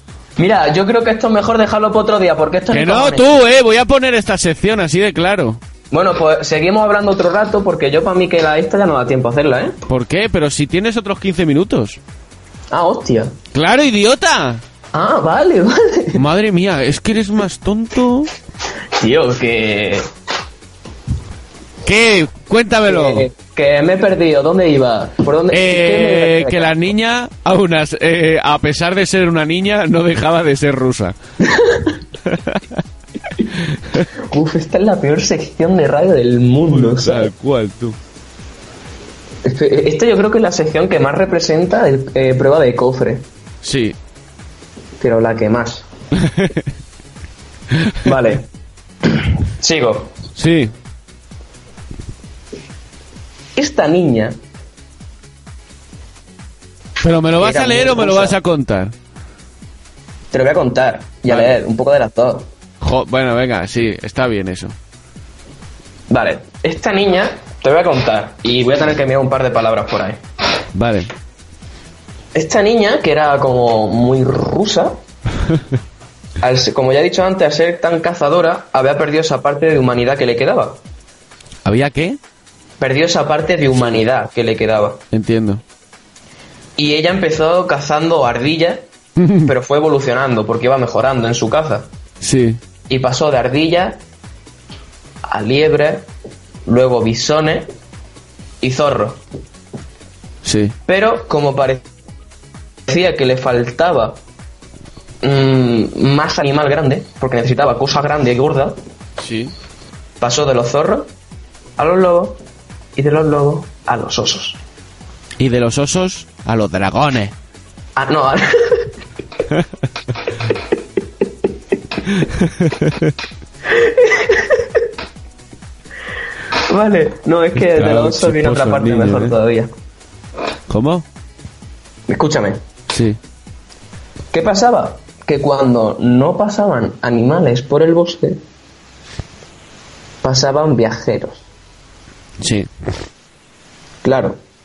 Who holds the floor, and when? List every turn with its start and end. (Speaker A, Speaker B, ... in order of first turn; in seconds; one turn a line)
Speaker A: 0.4-3.4
Speaker B: 2.7-5.6
Speaker A: 5.9-9.8
Speaker B: 9.9-12.0
Speaker A: 12.7-13.3
Speaker B: 13.5-14.6
Speaker A: 14.9-16.2
Speaker B: 16.1-18.3
Speaker A: 19.0-20.1
Speaker B: 21.8-23.3
Speaker A: 22.9-26.8
Speaker B: 25.5-31.1
Speaker A: 31.4-31.9
Speaker B: 32.2-32.6
Speaker B: 33.7-34.1
Speaker A: 34.2-37.3
Speaker B: 36.7-38.0
Speaker A: 39.4-43.2
Speaker B: 43.6-44.0
Speaker A: 45.0-45.9
Speaker B: 46.2-46.5
Speaker A: 48.0-48.5
Speaker A: 49.0-50.1
Speaker B: 50.3-50.7
Speaker A: 53.5-54.4
Speaker B: 57.0-58.9
Speaker A: 57.4-58.4
Speaker A: 60.3-62.5
Speaker B: 61.3-61.5
Speaker B: 62.8-64.8
Speaker A: 66.1-70.2
Speaker B: 70.7-71.1
Speaker A: 72.3-75.0
Speaker A: 76.4-80.8
Speaker B: 81.6-82.2
Speaker A: 82.8-85.0
Speaker B: 83.7-84.0
Speaker B: 85.1-85.6
Speaker A: 86.8-88.8
Speaker B: 89.2-89.5
Speaker A: 89.4-91.9
Speaker B: 92.2-92.6
Speaker A: 92.9-94.0
Speaker A: 95.2-96.1
Speaker A: 96.7-97.7
Speaker A: 98.6-99.2
Speaker B: 100.4-100.8
Speaker A: 100.9-101.8
Speaker A: 102.8-104.2
Speaker A: 105.2-108.8
Speaker B: 109.2-109.5
Speaker A: 110.2-111.1
Speaker A: 111.8-112.4
Speaker A: 113.0-114.6
Speaker B: 115.4-117.3
Speaker A: 118.0-118.9
Speaker B: 122.1-123.1
Speaker A: 123.7-124.8
Speaker A: 126.5-129.7
Speaker B: 127.5-129.3
Speaker B: 130.7-131.0
Speaker A: 132.1-132.6
Speaker B: 132.9-133.2
Speaker A: 134.3-138.4
Speaker A: 140.2-141.4
Speaker B: 142.4-142.7
Speaker A: 144.0-144.4